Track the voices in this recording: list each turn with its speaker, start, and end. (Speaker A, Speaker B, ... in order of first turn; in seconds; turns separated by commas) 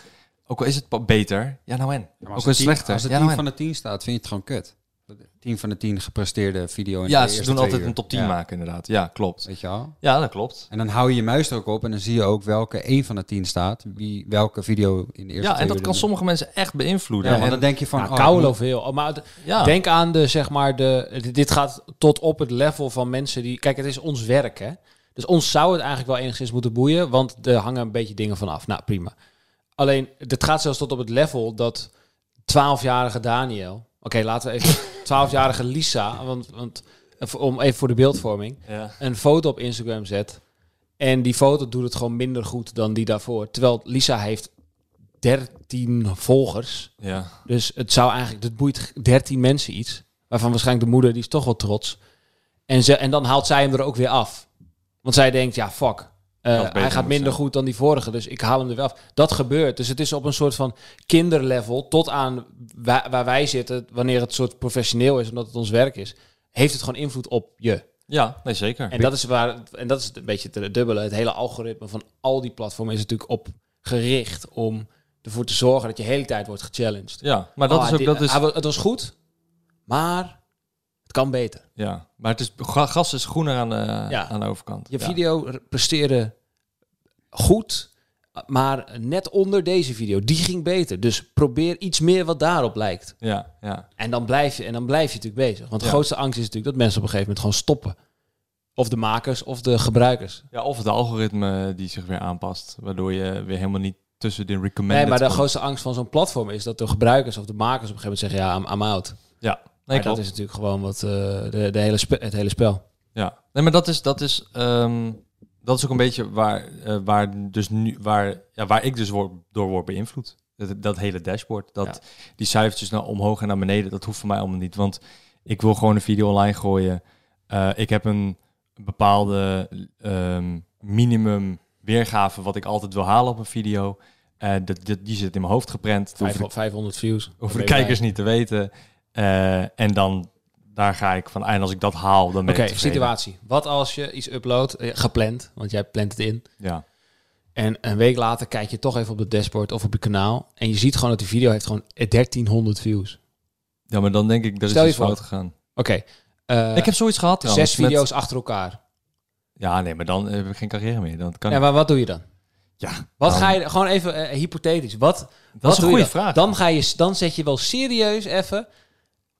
Speaker A: 0.5-3.4, Speaker B: 2.2-8.4, Speaker A: 7.1-9.5, Speaker B: 9.4-9.9, Speaker A: 10.0-10.7, Speaker B: 10.7-16.1, Speaker A: 15.4-17.6, Speaker B: 17.2-18.6, Speaker C: 17.3-29.1, Speaker A: 19.4-19.8, Speaker C: 29.8-31.9, Speaker C: 32.5-40.4, Speaker A: 38.7-39.0, Speaker C: 41.0-44.5, Speaker C: 45.2-46.9, Speaker A: 47.0-47.4, Speaker C: 47.5-52.0, Speaker C: 52.7-54.5, Speaker C: 55.0-67.8, Speaker A: 56.5-57.4, Speaker A: 68.1-69.1, Speaker C: 68.9-79.1, Speaker A: 77.2-78.4, Speaker C: 79.9-80.4, Speaker C: 81.1-81.6, Speaker A: 81.8-85.2, Speaker C: 84.9-86.3, Speaker C: 87.3-93.2, Speaker A: 93.2-93.9, Speaker C: 94.0-98.0, Speaker C: 98.8-100.4, Speaker A: 100.5-105.5, Speaker C: 104.9-109.2, Speaker A: 109.4-110.2, Speaker C: 109.9-112.8, Speaker A: 113.2-136.5, Speaker C: 136.2-138.0, Speaker A: 137.4-143.1, Speaker C: 142.5-146.4, Speaker C: 147.6-153.2, Speaker A: 153.9-155.5, Speaker C: 154.7-155.2, Speaker C: 155.8-158.8, Speaker A: 156.8-158.0, Speaker A: 159.6-161.6, Speaker C: 161.5-162.2, Speaker A: 162.8-163.6, Speaker C: 163.2-168.7, Speaker A: 165.6-166.5